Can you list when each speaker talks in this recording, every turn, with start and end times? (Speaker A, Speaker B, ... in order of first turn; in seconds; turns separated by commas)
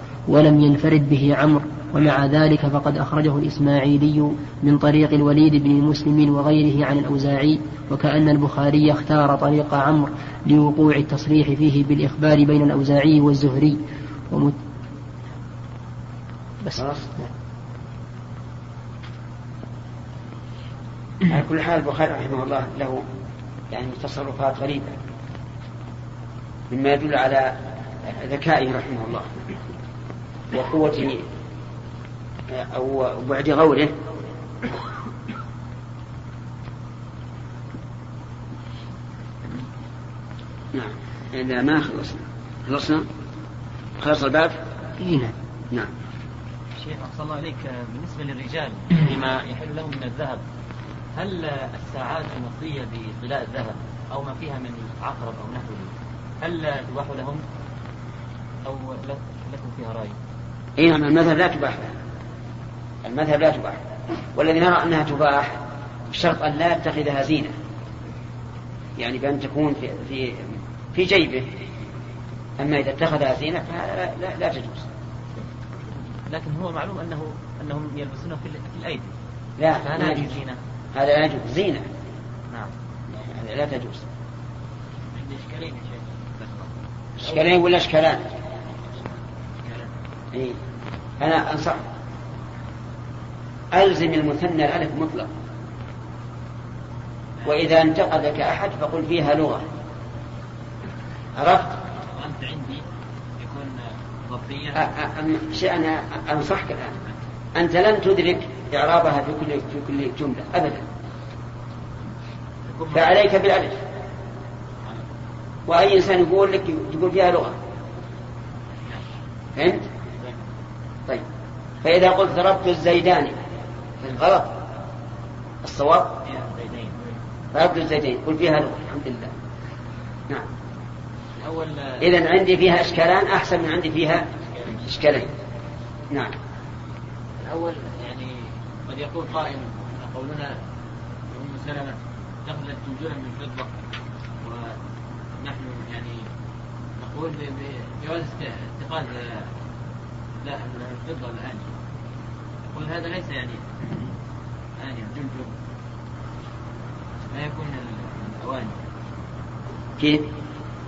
Speaker A: 0.3-14.6, Speaker A: 16.6-17.3, Speaker B: 16.8-17.1, Speaker B: 21.3-23.0, Speaker B: 23.7-25.0, Speaker B: 26.7-29.3, Speaker B: 30.5-31.2, Speaker B: 32.5-33.9, Speaker B: 40.7-43.1, Speaker B: 44.0-44.6, Speaker A: 45.0-45.3, Speaker C: 46.8-50.4, Speaker C: 51.1-57.4, Speaker C: 58.6-60.2, Speaker B: 60.8-61.9, Speaker B: 63.0-63.8, Speaker B: 64.3-65.6, Speaker B: 66.1-67.5, Speaker B: 69.0-71.5, Speaker B: 72.6-74.9, Speaker C: 76.3-79.1, Speaker B: 79.6-80.3, Speaker C: 79.8-80.6, Speaker B: 80.9-81.8, Speaker B: 83.1-84.1, Speaker C: 85.1-86.7, Speaker B: 87.2-88.2, Speaker C: 89.6-89.9, Speaker B: 91.2-91.8, Speaker B: 93.7-95.3, Speaker B: 97.5-99.7, Speaker B: 101.4-101.8, Speaker C: 102.1-102.8, Speaker C: 103.4-104.9, Speaker B: 104.8-107.0, Speaker B: 107.5-110.9, Speaker C: 112.7-113.1, Speaker B: 112.9-113.8, Speaker B: 115.7-117.6, Speaker B: 119.5-119.8, Speaker B: 121.8-123.4, Speaker B: 124.0-124.6, Speaker B: 125.6-126.2, Speaker C: 126.2-127.1, Speaker B: 127.5-129.3, Speaker C: 131.4-132.1, Speaker B: 132.0-135.3, Speaker C: 137.4-140.5, Speaker C: 141.3-143.7, Speaker C: 144.4-144.8, Speaker C: 145.4-146.2, Speaker C: 147.0-149.5, Speaker C: 150.4-151.7, Speaker C: 152.7-153.6, Speaker C: 154.8-155.5, Speaker C: 157.3-158.8, Speaker B: 160.0-160.3